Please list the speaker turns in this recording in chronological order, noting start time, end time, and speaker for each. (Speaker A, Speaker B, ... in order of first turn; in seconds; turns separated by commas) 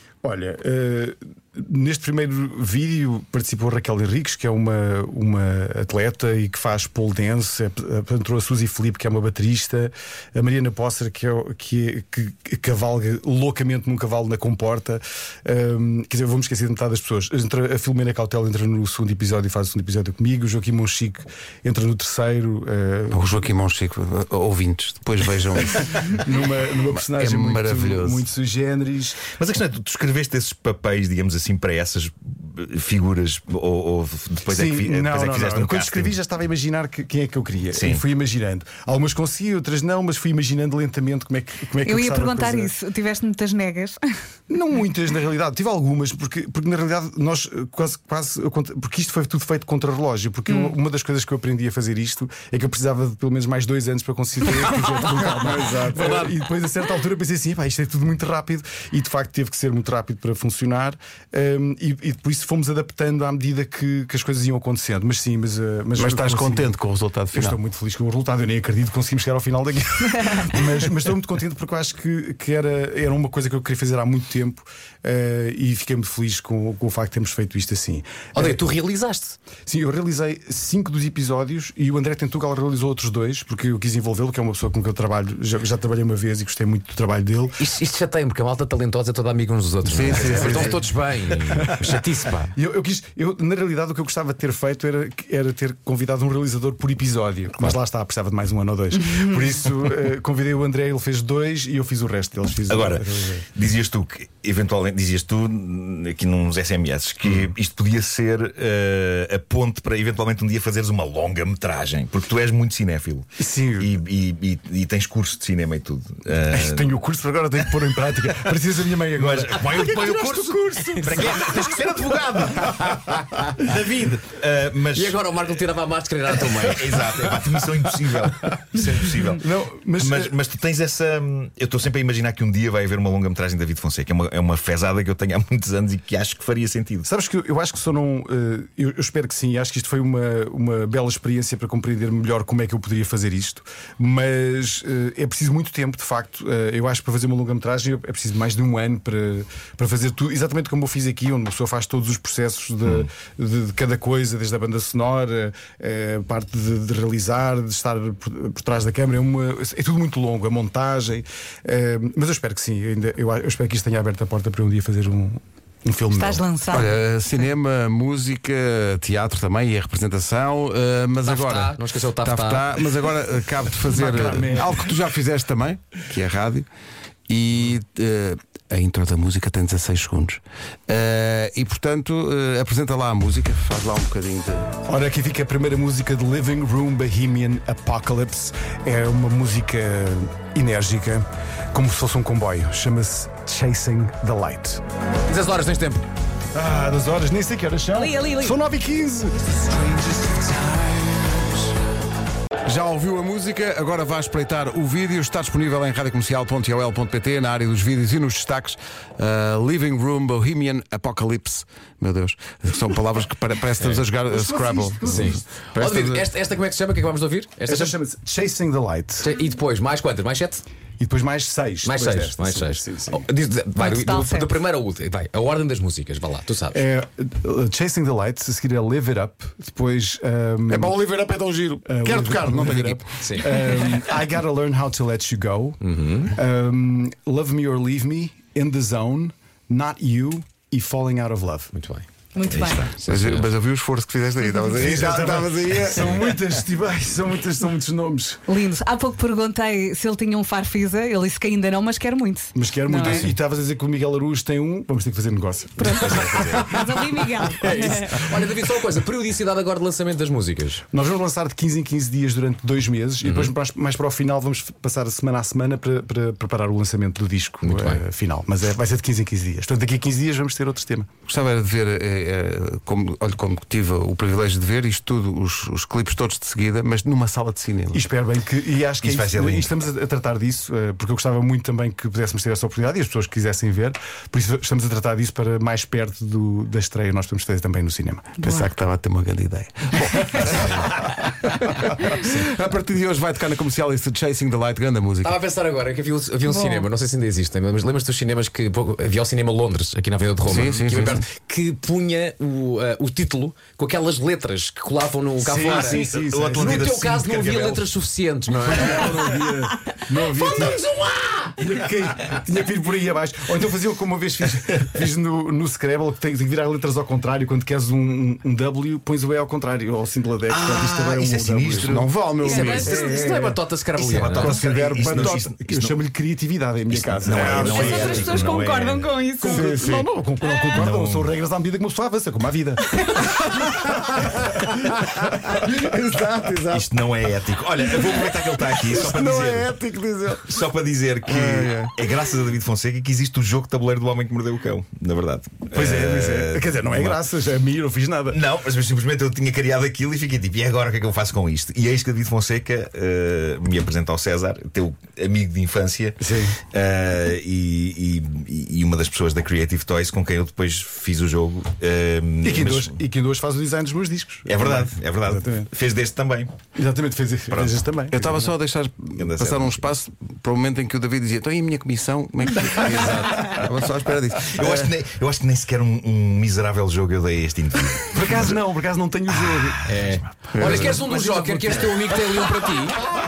Speaker A: 0.2-23.2, Speaker B: 23.1-26.1, Speaker A: 25.7-29.3, Speaker B: 26.9-28.2, Speaker C: 29.4-36.2, Speaker A: 34.5-42.7, Speaker C: 37.7-38.0, Speaker D: 41.9-44.0, Speaker A: 44.5-66.8, Speaker D: 50.5-50.8, Speaker B: 55.2-56.2, Speaker E: 56.0-56.2, Speaker B: 65.9-67.6, Speaker A: 67.3-78.6, Speaker E: 78.3-79.4, Speaker A: 79.7-87.6, Speaker E: 87.6-92.5, Speaker B: 89.8-90.8, Speaker A: 90.0-103.5, Speaker C: 102.7-113.3, Speaker A: 113.4-113.9, Speaker C: 113.8-116.9, Speaker A: 116.5-121.7, Speaker C: 119.2-125.2, Speaker E: 121.0-123.4, Speaker E: 124.9-127.5, Speaker C: 126.6-137.1, Speaker A: 129.3-130.4, Speaker A: 137.1-166.4, Speaker D: 166.1-167.0, Speaker B: 166.7-176.7, Speaker E: 171.2-172.7, Speaker A: 173.9-174.9, Speaker B: 177.3-184.7, Speaker A: 184.9-194.8, Speaker E: 195.3-196.1, Speaker A: 196.5-201.3, Speaker D: 197.9-198.6, Speaker B: 202.7-216.3, Speaker A: 214.2-215.4, Speaker E: 215.0-218.0, Speaker A: 217.7-219.4, Speaker E: 219.2-220.6, Speaker A: 221.0-223.2, Speaker E: 221.8-226.8, Speaker D: 223.8-224.6, Speaker A: 226.7-231.0, Speaker B: 230.7-233.0, Speaker A: 231.9-235.8, Speaker E: 233.1-233.6, Speaker E: 235.8-236.3, Speaker A: 236.3-241.7, Speaker E: 241.8-242.1, Speaker D: 242.3-242.9, Speaker C: 242.4-242.9, Speaker E: 242.8-243.5, Speaker B: 243.1-246.3, Speaker A: 244.8-248.4, Speaker D: 248.5-253.3, Speaker A: 252.6-256.8, Speaker D: 255.8-258.3, Speaker C: 256.2-256.8, Speaker E: 257.6-260.8, Speaker A: 260.9-271.1, Speaker E: 263.2-263.5, Speaker E: 267.6-268.0, Speaker B: 271.3-278.0, Speaker A: 277.9-288.4, Speaker C: 279.0-279.7, Speaker B: 288.4-295.4, Speaker E: 295.2-309.5, Speaker D: 296.6-296.9, Speaker B: 300.4-301.3, Speaker A: 305.4-307.0, Speaker C: 305.6-307.9, Speaker A: 308.6-310.8, Speaker E: 310.1-311.6, Speaker A: 311.6-322.1, Speaker C: 320.5-322.9, Speaker B: 321.8-323.2, Speaker E: 322.4-324.6, Speaker D: 322.5-323.2, Speaker A: 322.8-323.6, Speaker C: 323.9-326.0, Speaker B: 324.3-325.5, Speaker A: 324.7-328.4, Speaker C: 326.9-329.2, Speaker D: 327.4-329.7, Speaker B: 327.5-328.0, Speaker A: 329.4-333.2, Speaker B: 329.4-330.1, Speaker C: 330.8-331.3, Speaker B: 334.8-336.9, Speaker C: 336.7-339.7, Speaker B: 338.8-340.6, Speaker C: 340.4-347.2, Speaker B: 341.3-341.9, Speaker A: 345.7-348.4, Speaker C: 348.3-363.0, Speaker A: 356.2-356.6, Speaker A: 362.4-365.7, Speaker C: 364.4-366.6, Speaker A: 366.8-368.6, Speaker C: 367.5-367.8, Speaker B: 368.1-374.9, Speaker C: 369.1-369.9, Speaker E: 372.8-373.5, Speaker C: 374.4-378.5, Speaker A: 378.1-382.3, Speaker E: 379.9-383.0, Speaker B: 380.5-381.0, Speaker C: 380.7-381.0